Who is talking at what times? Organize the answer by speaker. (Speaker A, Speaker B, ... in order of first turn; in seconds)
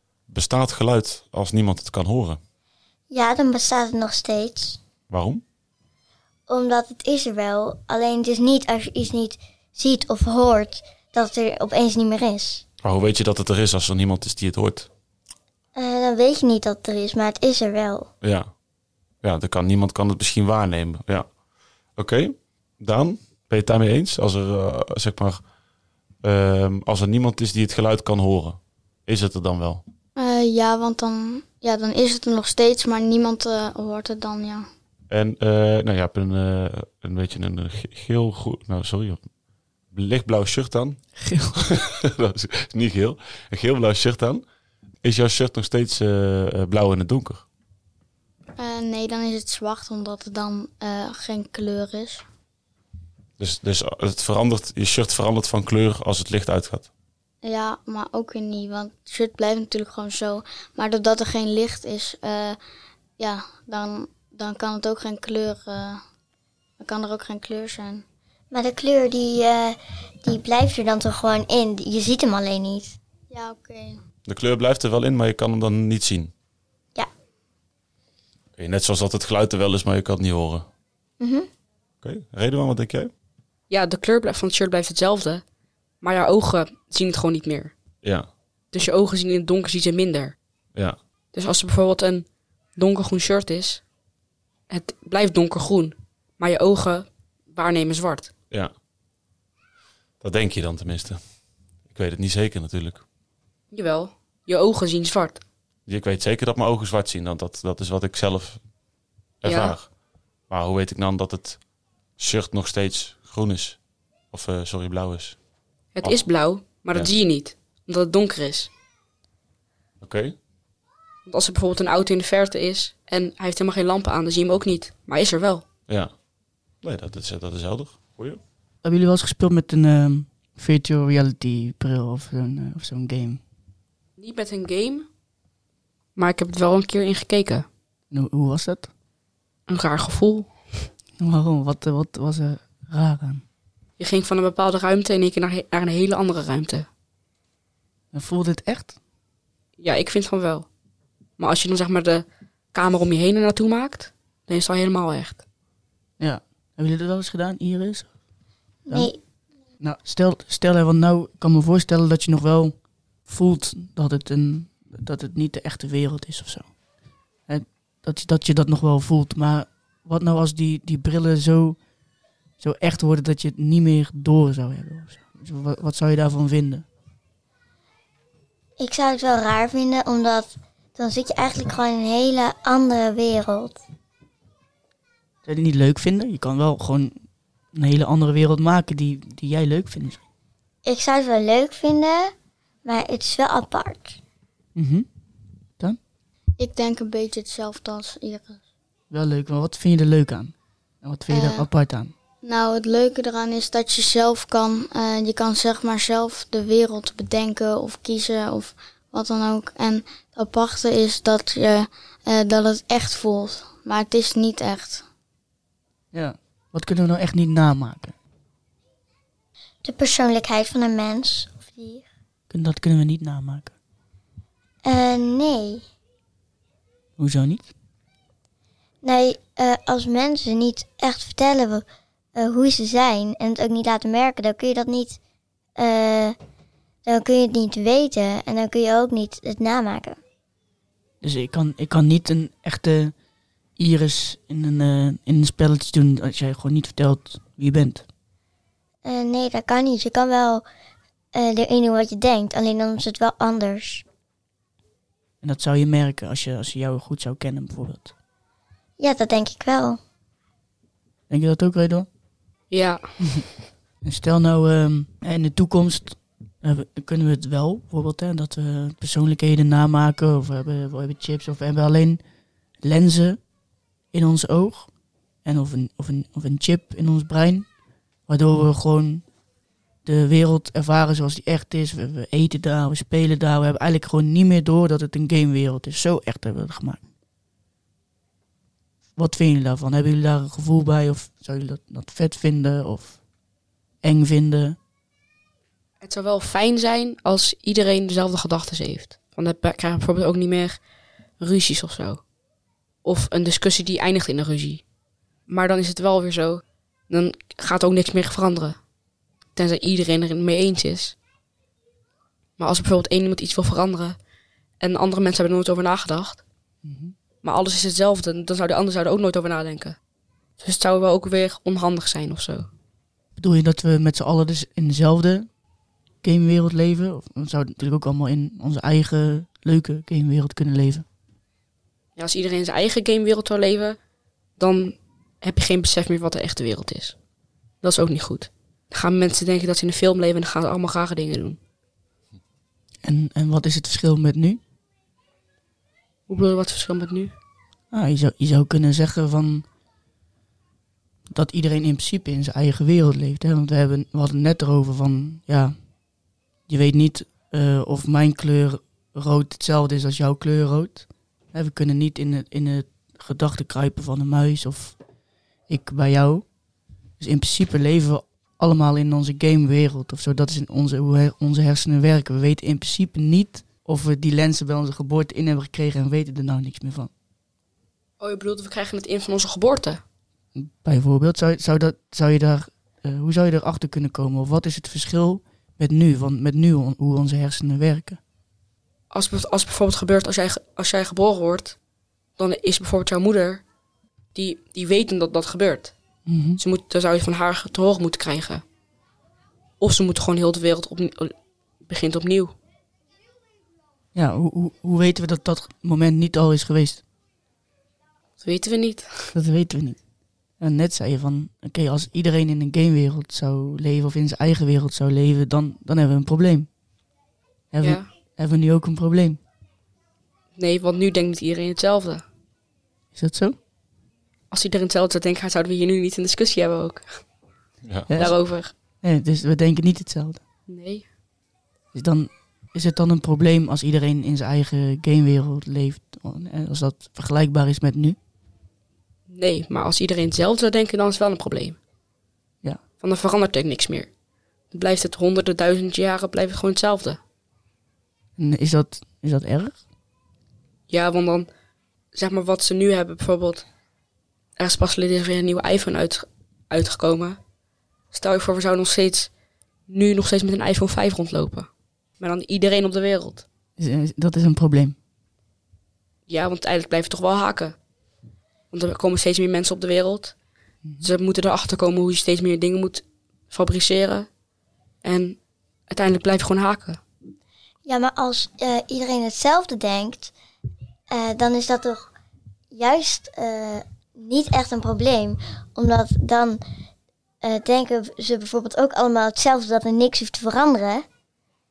Speaker A: 0.3-2.4, 5.1-5.4, 12.8-14.9, 18.2-18.5, 19.2-21.3, 21.9-25.4, 26.2-29.8, 35.1-39.2, 39.9-44.4, 45.0-47.5, 53.4-56.9, 74.3-76.3, 78.6-80.7, 82.0-83.1, 100.2-101.2, 101.9-103.0, 105.9-108.6, 109.4-109.9, 110.5-111.6, 112.2-113.8, 114.3-115.4, 120.0-120.3, 125.9-126.1, 126.8-128.4
Speaker B: 3.1-4.8, 6.5-12.6, 15.7-18.1, 68.5-73.0, 81.2-81.5, 158.9-159.2, 178.8-183.8, 190.8-192.3, 192.8-194.2, 219.8-222.1, 224.8-225.8, 229.0-231.8, 232.3-235.2, 235.8-236.3, 237.1-240.2, 249.0-250.6, 251.3-254.0, 259.0-260.0, 477.8-480.3, 481.1-482.1, 482.7-486.6, 487.4-491.0
Speaker C: 30.1-34.7, 48.6-52.2, 57.4-62.6, 63.2-66.0, 66.8-68.0, 73.3-74.0, 196.6-198.6, 201.3-201.7, 202.4-215.0
Speaker D: 41.1-41.6, 128.8-133.4, 138.1-138.9, 141.2-143.4, 148.1-148.9, 156.2-158.1, 158.9-159.1, 159.8-166.7, 167.5-171.8, 172.6-176.8, 185.4-190.2, 194.7-195.1, 199.1-202.1, 216.1-218.1, 222.5-223.7, 227.2-227.7, 241.2-243.1, 243.8-248.0, 255.4-258.1, 261.3-262.1, 264.0-272.2, 272.8-273.4, 274.1-274.9, 275.4-277.7, 278.3-279.2, 280.0-287.0, 289.1-293.2, 294.0-294.8, 316.8-317.1, 323.4-325.5, 326.2-331.0, 343.0-344.6, 347.9-349.6, 351.3-355.8, 356.7-365.0, 365.7-366.5, 367.2-377.1, 380.5-388.2, 396.2-396.6, 404.1-407.0, 409.3-410.0, 410.6-416.7, 417.7-419.4, 423.1-423.6, 428.1-428.4, 429.0-430.4, 431.9-438.2, 448.4-449.8, 463.8-464.9
Speaker E: 83.7-85.4, 86.0-87.8, 88.7-90.3, 91.3-93.8, 94.7-98.3, 103.7-105.4, 109.4-109.8, 115.9-118.7, 121.2-125.6, 134.2-135.1, 136.2-137.7, 139.7-140.8, 144.0-146.9, 149.8-150.7, 151.4-155.4, 262.7-263.5, 296.0-300.8, 301.4-302.2, 303.0-304.8, 305.5-308.8, 309.6-311.1, 312.6-314.2, 314.8-316.4, 317.4-320.0, 320.6-322.7, 332.1-334.0, 334.6-337.2, 337.8-341.6, 346.3-347.4, 378.2-380.0, 389.1-391.8, 392.4-393.6, 394.3-395.9, 396.6-398.6, 399.8-402.5, 408.4-409.3, 417.8-418.1, 420.5-422.2, 424.5-427.2, 428.1-428.7, 430.7-431.1, 439.3-441.8, 443.0-444.1, 444.7-447.2, 450.9-451.5, 452.1-453.7, 454.6-457.4, 458.1-459.3, 459.9-463.4, 466.3-467.8, 468.7-470.3, 471.0-474.3, 475.0-475.4, 475.9-477.0